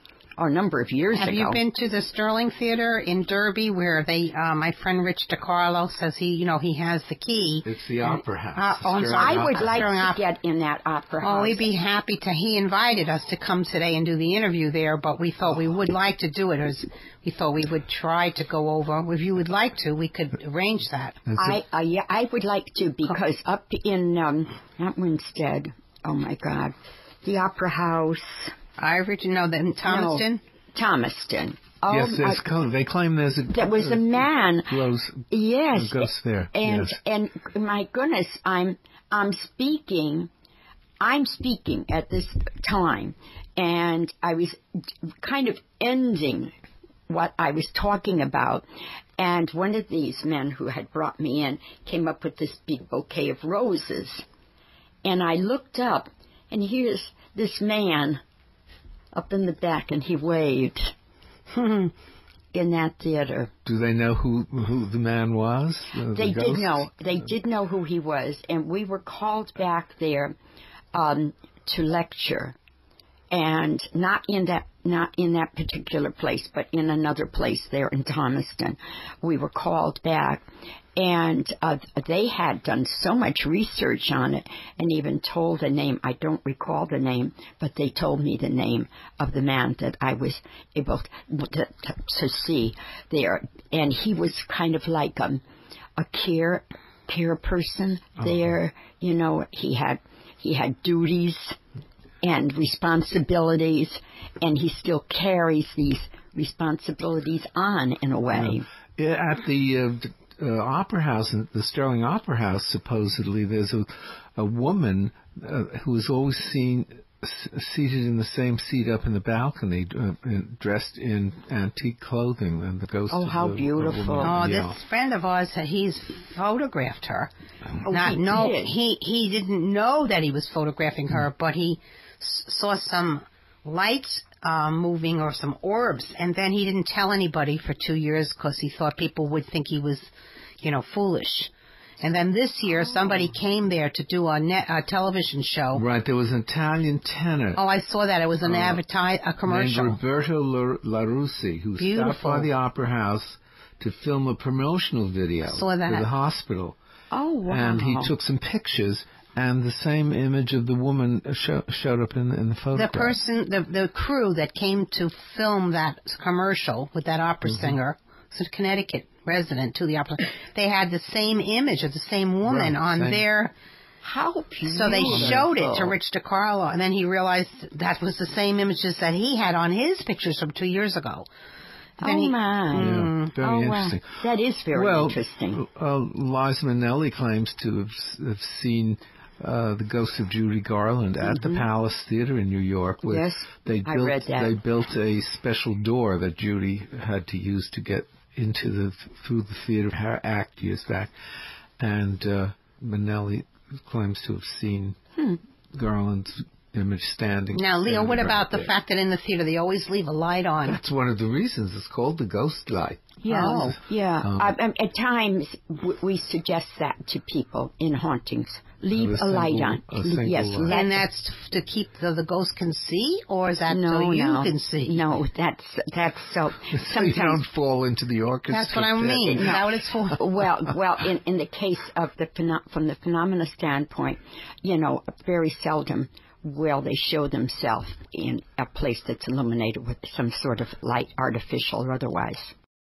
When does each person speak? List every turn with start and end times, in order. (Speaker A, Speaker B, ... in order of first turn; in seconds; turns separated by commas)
Speaker A: 0.4-1.6, Speaker B: 1.1-10.2, Speaker C: 7.6-9.8, Speaker A: 8.8-11.7, Speaker B: 11.2-21.2, Speaker C: 21.3-21.6, Speaker A: 21.4-28.5, Speaker B: 28.8-30.4, Speaker A: 29.9-32.4, Speaker C: 31.9-37.0, Speaker A: 33.5-34.7, Speaker A: 35.3-40.3, Speaker A: 41.0-44.6, Speaker A: 45.2-46.5, Speaker A: 47.1-48.6, Speaker A: 49.2-54.2, Speaker A: 55.0-58.2, Speaker A: 59.1-60.9, Speaker B: 61.5-61.9, Speaker A: 62.5-63.5, Speaker C: 63.7-66.9, Speaker A: 66.1-70.3, Speaker A: 70.9-72.5, Speaker A: 73.3-80.5, Speaker A: 81.0-95.4, Speaker A: 96.0-101.6, Speaker A: 102.2-108.7, Speaker C: 108.3-124.8, Speaker A: 123.1-124.3, Speaker B: 124.2-127.3, Speaker A: 127.8-128.7, Speaker B: 127.9-145.8, Speaker C: 145.8-147.6, Speaker B: 147.6-150.0, Speaker C: 148.4-148.8, Speaker C: 149.5-156.8, Speaker B: 151.8-152.5, Speaker B: 155.5-156.1, Speaker A: 157.1-158.1, Speaker C: 157.5-163.2, Speaker B: 162.8-173.5, Speaker C: 167.5-167.8, Speaker C: 172.4-173.3, Speaker A: 174.0-175.9, Speaker B: 174.7-181.3, Speaker C: 175.0-175.4, Speaker A: 182.0-185.6, Speaker B: 182.0-183.3, Speaker C: 182.8-184.1, Speaker C: 184.7-201.1, Speaker A: 191.2-191.6, Speaker A: 193.1-194.6, Speaker C: 201.8-205.0, Speaker C: 205.7-208.7, Speaker B: 207.5-210.8, Speaker C: 210.7-214.5, Speaker A: 213.2-221.0, Speaker C: 218.9-220.8, Speaker B: 220.7-225.0, Speaker A: 223.7-227.4, Speaker C: 226.7-229.6, Speaker B: 228.5-230.2, Speaker A: 229.3-229.6, Speaker A: 230.1-242.5